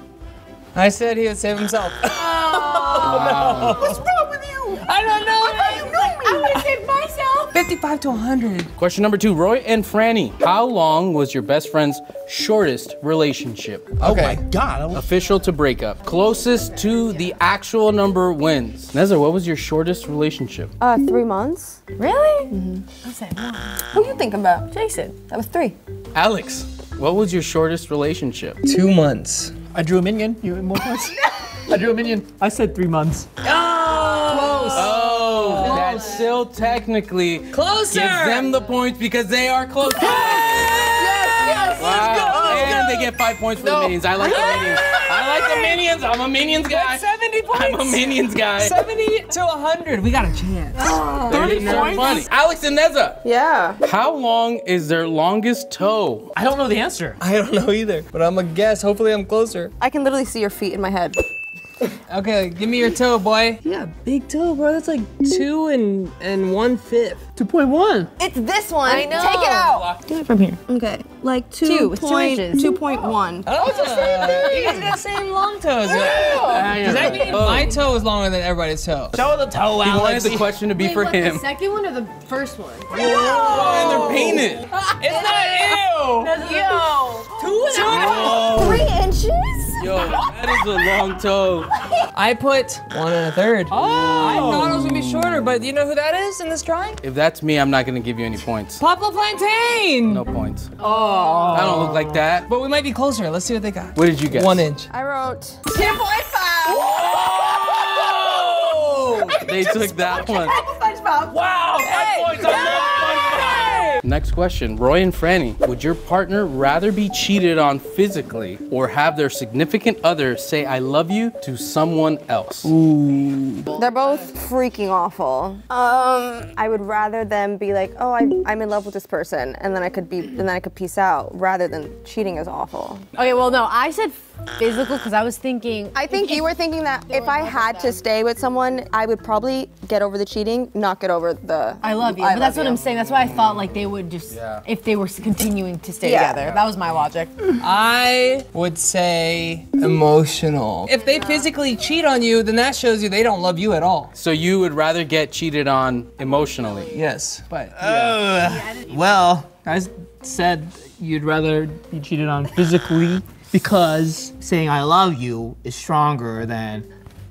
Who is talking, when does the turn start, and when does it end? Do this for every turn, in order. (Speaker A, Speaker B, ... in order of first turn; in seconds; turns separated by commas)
Speaker A: 0.7-3.8, Speaker B: 2.5-5.3, Speaker C: 2.9-4.0, Speaker A: 5.0-5.8, Speaker D: 5.3-7.5, Speaker E: 5.7-6.5, Speaker A: 7.5-8.7, Speaker C: 8.8-14.0, Speaker B: 14.0-15.1, Speaker A: 14.0-14.4, Speaker C: 14.9-20.7, Speaker D: 16.4-17.3, Speaker E: 20.8-21.8, Speaker D: 22.0-23.9, Speaker E: 22.5-22.8, Speaker E: 23.9-24.7, Speaker D: 24.7-25.2, Speaker E: 25.2-25.8, Speaker C: 26.1-28.6, Speaker A: 28.6-29.5, Speaker B: 29.7-33.3, Speaker A: 33.4-35.0, Speaker E: 34.3-36.0, Speaker C: 34.7-40.8, Speaker B: 35.5-36.0, Speaker A: 35.6-36.0, Speaker A: 37.5-38.5, Speaker A: 40.0-43.1, Speaker E: 41.0-42.9, Speaker C: 41.8-48.8, Speaker A: 43.6-45.8, Speaker A: 46.6-52.1, Speaker B: 50.9-52.3, Speaker E: 51.1-51.8, Speaker C: 51.3-53.2, Speaker E: 53.2-53.8, Speaker C: 53.8-56.3, Speaker B: 56.4-57.2, Speaker A: 57.2-59.7, Speaker E: 59.8-61.2, Speaker A: 62.1-67.2, Speaker B: 67.3-68.1, Speaker E: 68.2-74.8, Speaker D: 68.8-69.8, Speaker D: 71.6-73.0, Speaker A: 73.5-79.2, Speaker C: 73.9-74.8, Speaker B: 75.9-77.3, Speaker E: 76.0-76.7, Speaker C: 76.3-77.7, Speaker D: 76.9-77.7, Speaker B: 79.2-80.5, Speaker C: 79.8-81.5, Speaker D: 80.7-83.2, Speaker B: 82.9-84.3, Speaker E: 83.0-84.4, Speaker A: 83.1-84.4, Speaker C: 83.4-84.7, Speaker A: 85.0-86.3, Speaker D: 86.2-88.3, Speaker E: 86.3-91.1, Speaker A: 87.7-88.1, Speaker B: 87.8-88.8, Speaker C: 87.9-88.8, Speaker C: 89.8-91.7, Speaker E: 91.8-92.0, Speaker A: 92.1-97.0, Speaker B: 93.7-94.8, Speaker C: 93.9-95.5, Speaker C: 97.0-98.8, Speaker A: 98.8-100.2, Speaker C: 100.1-100.7, Speaker A: 100.8-104.9, Speaker E: 100.8-101.7, Speaker B: 101.2-101.5, Speaker C: 101.5-102.5, Speaker C: 103.9-104.7, Speaker E: 104.9-111.4, Speaker C: 106.7-110.5, Speaker C: 111.3-122.7, Speaker A: 111.8-114.0, Speaker E: 112.3-113.5, Speaker E: 123.2-133.0, Speaker D: 133.2-138.0, Speaker E: 135.9-142.8, Speaker D: 141.8-147.3, Speaker C: 142.9-143.8, Speaker C: 144.3-144.6, Speaker E: 146.0-146.6, Speaker A: 147.6-154.1, Speaker C: 154.1-157.0, Speaker D: 156.3-156.8, Speaker A: 156.9-157.7, Speaker B: 157.7-166.9, Speaker D: 158.4-159.1